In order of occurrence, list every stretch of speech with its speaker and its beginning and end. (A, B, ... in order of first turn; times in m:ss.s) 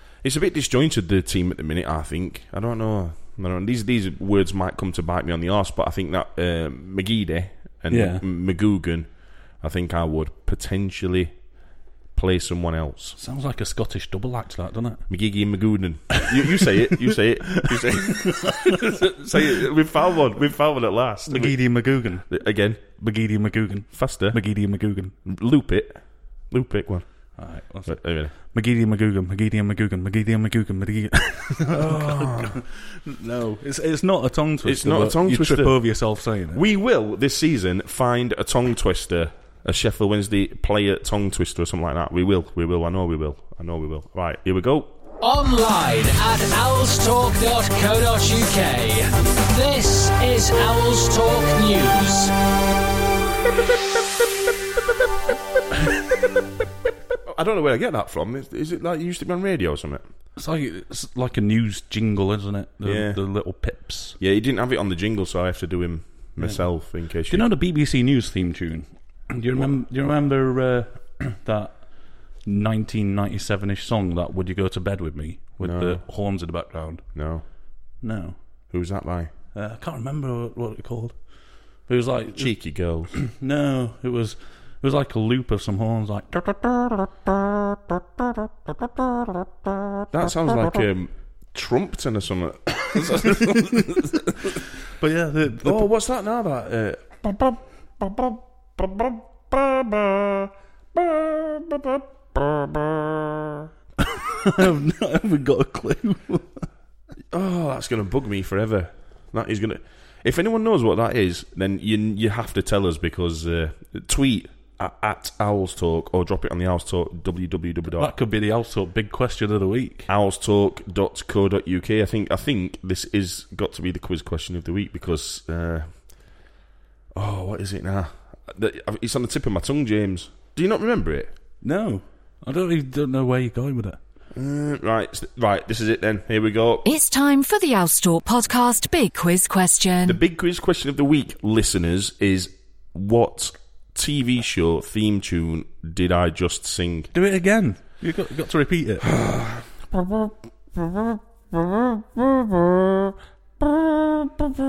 0:00.2-0:11.3 A
0:07.9-0:08.2 B
0:12.1-0:13.2 A
0:13.2-0:15.0 B
0:15.1-0:22.8 A
0:17.6-0:18.9 B
0:21.3-0:22.3 B
0:22.8-0:25.1 B
0:23.9-0:24.4 A
0:25.2-0:27.0 A
0:27.4-0:36.6 B
0:27.8-0:28.3 A
0:31.7-0:32.6 A
0:34.6-0:44.9 A
0:45.2-0:52.3 C
0:57.3-1:00.0 A
1:00.4-1:04.2 B
1:02.8-1:03.2 A
1:04.2-1:07.5 A
1:06.4-1:17.1 B
1:15.6-1:16.0 A
1:17.1-1:17.4 A
1:18.0-1:18.4 B
1:18.7-1:19.3 A
1:19.5-1:21.2 B
1:21.8-1:22.6 B
1:22.3-1:23.1 A
1:23.1-1:29.4 B
1:30.1-1:34.5 A
1:35.0-1:35.9 B
1:35.6-1:43.6 A
1:44.1-1:46.6 B
1:47.3-1:58.1 A
1:58.0-2:00.1 B
2:00.1-2:06.4 A
2:07.1-2:11.3 A
2:11.6-2:14.0 B
2:14.3-2:16.9 A
2:16.9-2:20.2 D
2:20.0-2:27.1 A
2:27.1-2:29.1 B
2:29.1-2:30.0 A
2:32.0-2:33.0 A
2:33.6-2:34.5 A